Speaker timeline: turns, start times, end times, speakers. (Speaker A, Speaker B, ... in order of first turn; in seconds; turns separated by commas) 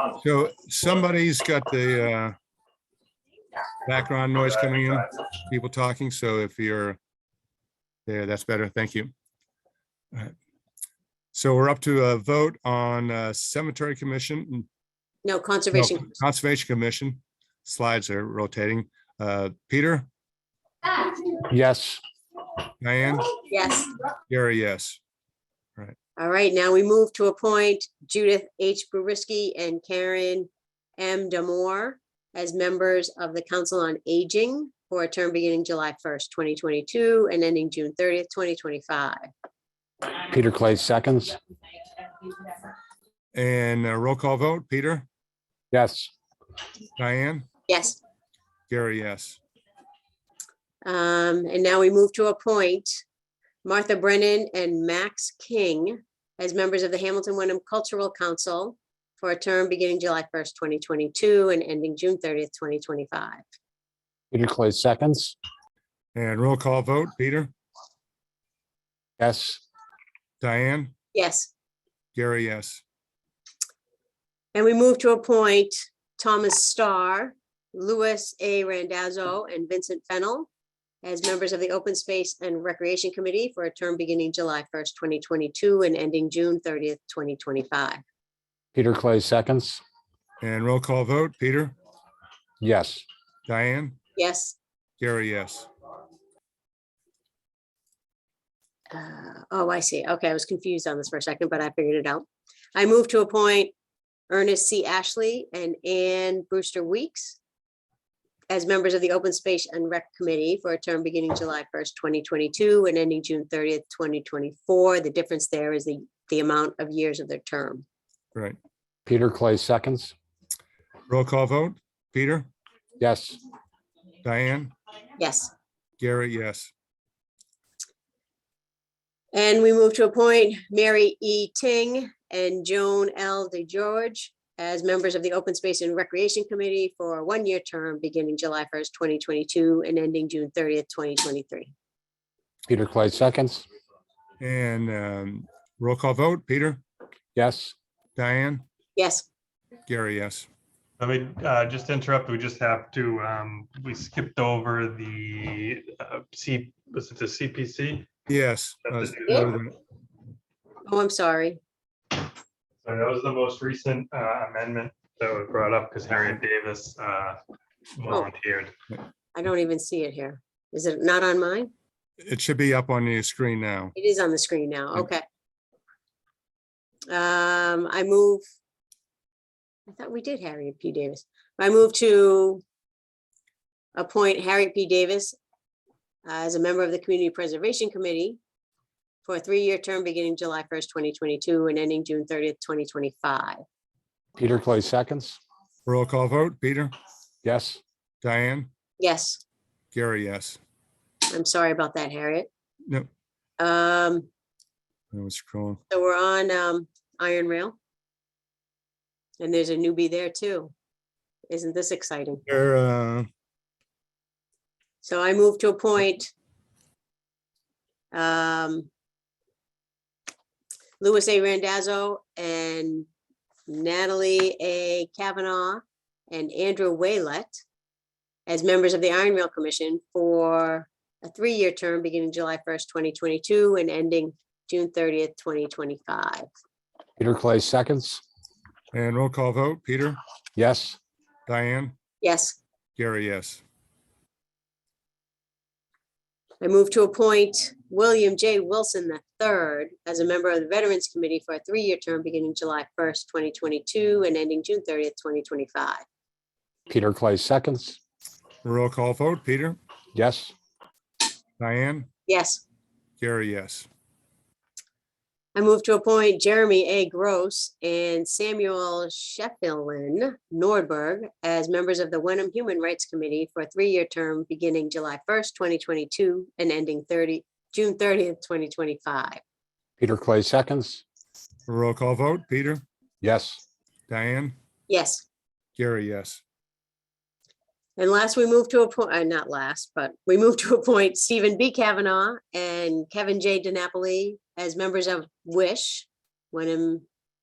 Speaker A: 0.2-2.4, Speaker A: 3.9-7.0, Speaker B: 4.2-5.0, Speaker A: 8.1-9.1, Speaker A: 11.3-14.7, Speaker C: 15.2-16.1, Speaker A: 15.7-20.1, Speaker D: 21.4-22.0, Speaker A: 22.8-23.3, Speaker C: 23.5-23.9, Speaker A: 24.3-25.0, Speaker C: 26.2-39.2, Speaker D: 40.3-41.4, Speaker A: 43.3-45.0, Speaker D: 45.7-46.1, Speaker A: 47.0-47.5, Speaker C: 47.7-48.0, Speaker A: 48.7-49.4, Speaker C: 50.8-53.0, Speaker C: 53.6-63.4, Speaker D: 64.3-65.4, Speaker A: 66.1-67.5, Speaker D: 69.2-69.6, Speaker A: 70.4-70.9, Speaker C: 71.1-71.5, Speaker A: 72.1-72.8, Speaker C: 74.5-80.5, Speaker C: 81.0-88.0, Speaker D: 88.7-89.8, Speaker A: 90.4-91.7, Speaker D: 92.6-93.0, Speaker A: 93.5-94.0, Speaker C: 94.2-94.5, Speaker A: 95.0-95.7, Speaker C: 98.9-103.7, Speaker C: 104.3-107.4, Speaker C: 108.5-117.8, Speaker D: 119.0-120.1, Speaker A: 121.1-122.5, Speaker D: 123.0-123.4, Speaker A: 124.2-124.7, Speaker C: 125.2-125.5, Speaker A: 126.0-126.7, Speaker C: 129.3-141.7, Speaker D: 142.7-143.6, Speaker A: 144.4-146.8, Speaker D: 147.3-147.7, Speaker A: 148.2-148.7, Speaker C: 148.9-149.3, Speaker A: 149.9-150.5, Speaker B: 151.0-158.1, Speaker A: 158.3-159.7, Speaker B: 158.8-159.7, Speaker C: 160.8-161.6, Speaker B: 162.8-167.4, Speaker B: 168.0-168.7, Speaker C: 169.3-171.7, Speaker A: 172.2-173.9, Speaker C: 173.9-175.2, Speaker C: 177.1-178.4, Speaker C: 179.9-182.6, Speaker C: 183.9-185.4, Speaker C: 186.2-188.4, Speaker C: 189.2-193.6, Speaker D: 194.3-195.4, Speaker A: 195.8-196.9, Speaker D: 197.4-197.8, Speaker A: 198.2-198.7, Speaker C: 199.0-199.4, Speaker A: 199.9-200.6, Speaker C: 201.3-202.5, Speaker C: 203.6-204.3, Speaker A: 205.1-205.8, Speaker C: 205.9-207.8, Speaker C: 209.4-210.7, Speaker C: 211.5-212.4, Speaker A: 212.5-213.3, Speaker C: 215.0-216.3, Speaker C: 218.1-218.9, Speaker C: 221.0-223.1, Speaker C: 223.7-227.6, Speaker C: 228.5-236.4, Speaker D: 237.2-238.2, Speaker A: 238.9-240.2, Speaker D: 240.6-241.0, Speaker A: 241.5-241.9, Speaker C: 242.2-242.6, Speaker A: 243.0-243.6, Speaker C: 246.6-256.0, Speaker D: 256.9-258.0, Speaker A: 258.6-259.8, Speaker D: 260.1-260.5, Speaker A: 261.6-262.1, Speaker C: 262.3-262.6, Speaker A: 263.2-263.9, Speaker C: 265.5-279.4, Speaker D: 280.0-281.0, Speaker A: 281.7-282.8, Speaker D: 283.2-283.6, Speaker A: 284.1-284.6, Speaker C: 284.9-285.2, Speaker A: 285.8-286.4, Speaker C: 288.0-297.0